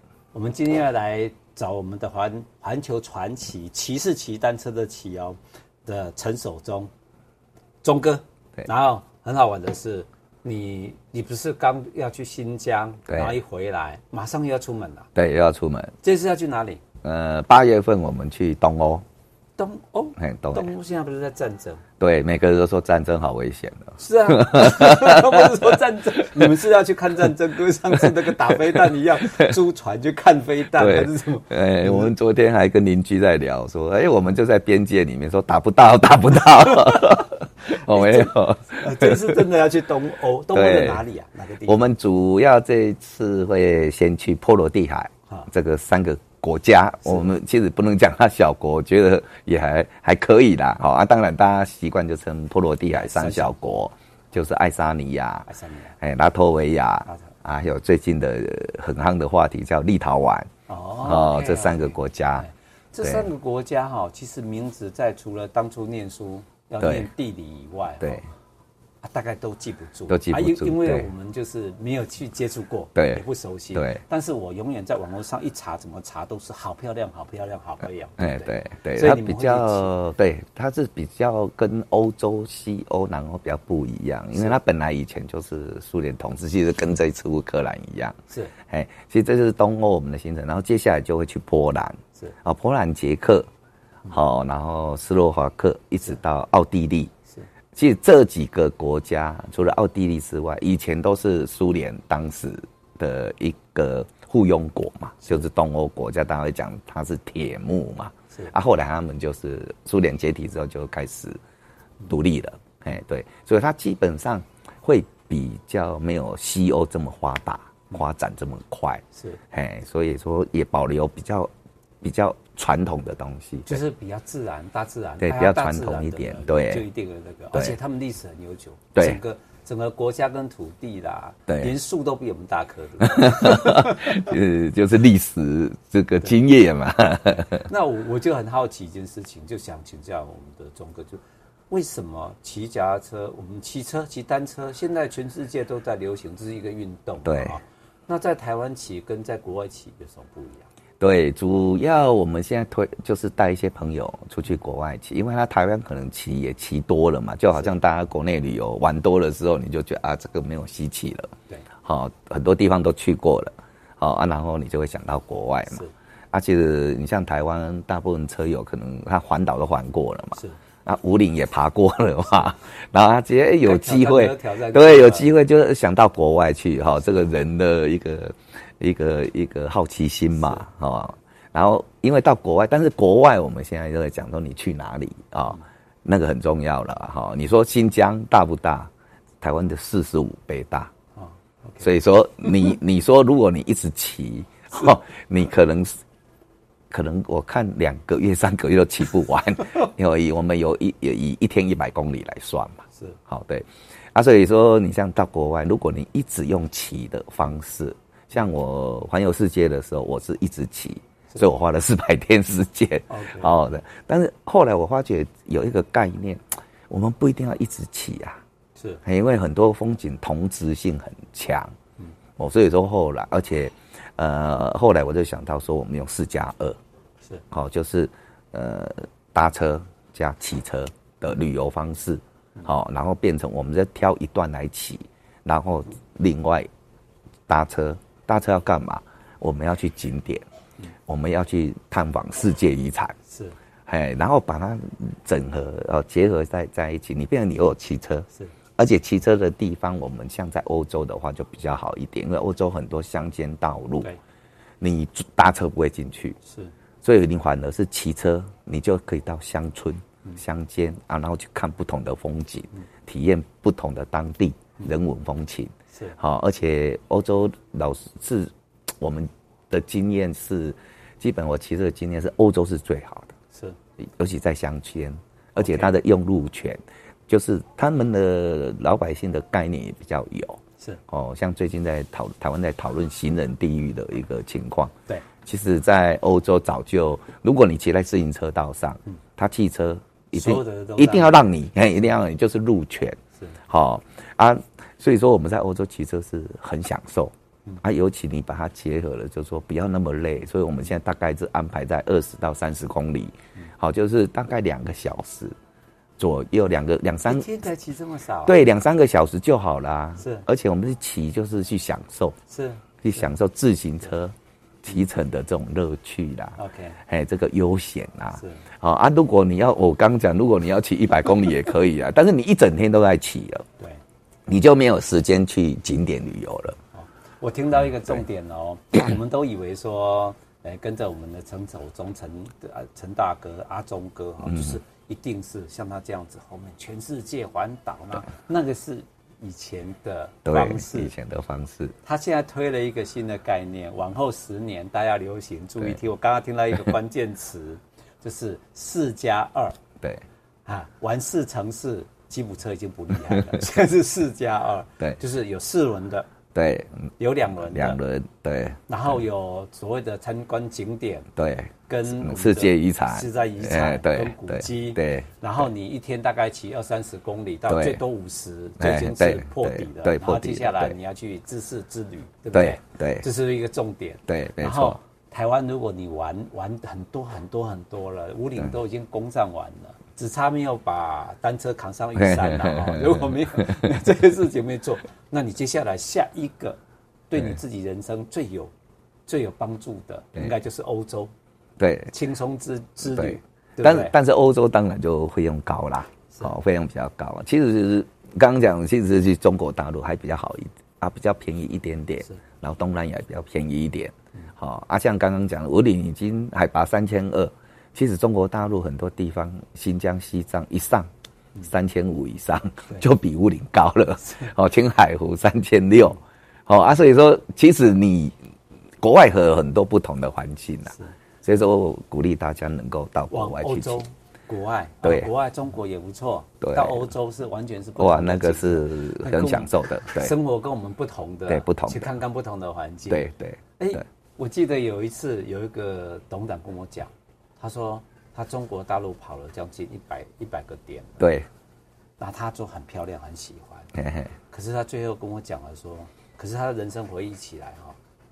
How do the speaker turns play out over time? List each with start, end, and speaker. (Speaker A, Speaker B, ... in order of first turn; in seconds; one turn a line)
Speaker A: 0.3-6.9
Speaker A: 7.8-15.1
Speaker B: 13.1-13.4
Speaker B: 15.1-15.9
Speaker A: 16.0-16.8
Speaker B: 17.0-19.0
Speaker A: 19.6-21.8
Speaker B: 20.2-20.7
Speaker B: 22.0-25.8
Speaker A: 24.0-32.1
Speaker B: 28.5-29.5
Speaker B: 30.8-39.4
Speaker A: 36.7-41.9
Speaker B: 40.5-41.0
Speaker B: 41.6-55.5
Speaker A: 52.9-53.5
Speaker A: 55.5-55.9
Speaker B: 56.0-60.5
Speaker A: 60.7-68.2
Speaker B: 61.0-62.5
Speaker B: 63.0-63.3
Speaker B: 66.8-67.1
Speaker A: 69.0-79.9
Speaker B: 70.1-71.1
Speaker B: 73.0-73.2
Speaker B: 73.7-74.0
Speaker B: 78.2-93.5
Speaker B: 94.1-97.1
Speaker B: 97.8-111.4
Speaker B: 112.1-121.5
Speaker B: 122.0-123.8
Speaker A: 123.7-134.3
Speaker B: 125.2-126.8
Speaker B: 128.9-129.2
Speaker B: 131.5-131.8
Speaker B: 133.0-137.7
Speaker A: 137.6-150.7
Speaker B: 147.2-147.6
Speaker B: 151.0-161.3
Speaker B: 161.8-188.9
Speaker A: 173.6-175.3
Speaker B: 189.4-190.9
Speaker A: 191.2-191.8
Speaker B: 191.8-196.0
Speaker B: 196.9-218.4
Speaker A: 213.1-213.5
Speaker B: 219.0-221.7
Speaker B: 222.4-226.8
Speaker B: 227.5-236.7
Speaker B: 237.5-240.4
Speaker B: 241.1-243.2
Speaker A: 243.3-243.5
Speaker B: 243.9-248.3
Speaker B: 248.8-254.1
Speaker B: 254.8-256.4
Speaker A: 256.4-256.7
Speaker B: 257.0-273.3
Speaker B: 274.0-284.9
Speaker A: 275.6-275.9
Speaker B: 285.4-293.2
Speaker A: 290.3-291.3
Speaker B: 293.7-305.5
Speaker B: 306.2-307.5
Speaker A: 307.3-308.6
Speaker B: 308.4-312.4
Speaker A: 310.2-310.4
Speaker A: 312.5-312.8
Speaker B: 313.0-323.6
Speaker A: 316.6-317.0
Speaker A: 318.4-318.6
Speaker B: 324.5-326.8
Speaker A: 326.9-341.1
Speaker B: 334.4-334.8
Speaker B: 340.4-341.9
Speaker A: 342.0-349.8
Speaker A: 350.6-356.3
Speaker B: 356.5-357.1
Speaker A: 357.2-358.0
Speaker B: 357.6-358.8
Speaker A: 358.9-361.3
Speaker B: 361.4-365.4
Speaker A: 361.9-386.8
Speaker B: 367.7-368.0
Speaker B: 368.8-370.9
Speaker B: 372.5-373.2
Speaker B: 374.3-375.0
Speaker B: 382.2-383.9
Speaker A: 387.3-388.7
Speaker A: 389.3-391.3
Speaker B: 391.8-392.1
Speaker A: 392.1-394.1
Speaker B: 393.1-411.1
Speaker B: 411.6-418.3
Speaker B: 419.0-424.0
Speaker A: 423.3-433.3
Speaker B: 425.0-425.3
Speaker B: 426.6-427.0
Speaker B: 428.0-430.3
Speaker B: 431.5-432.1
Speaker B: 433.1-434.0
Speaker A: 433.8-441.3
Speaker B: 441.2-441.5
Speaker A: 442.2-443.9
Speaker B: 443.9-444.3
Speaker A: 444.5-447.9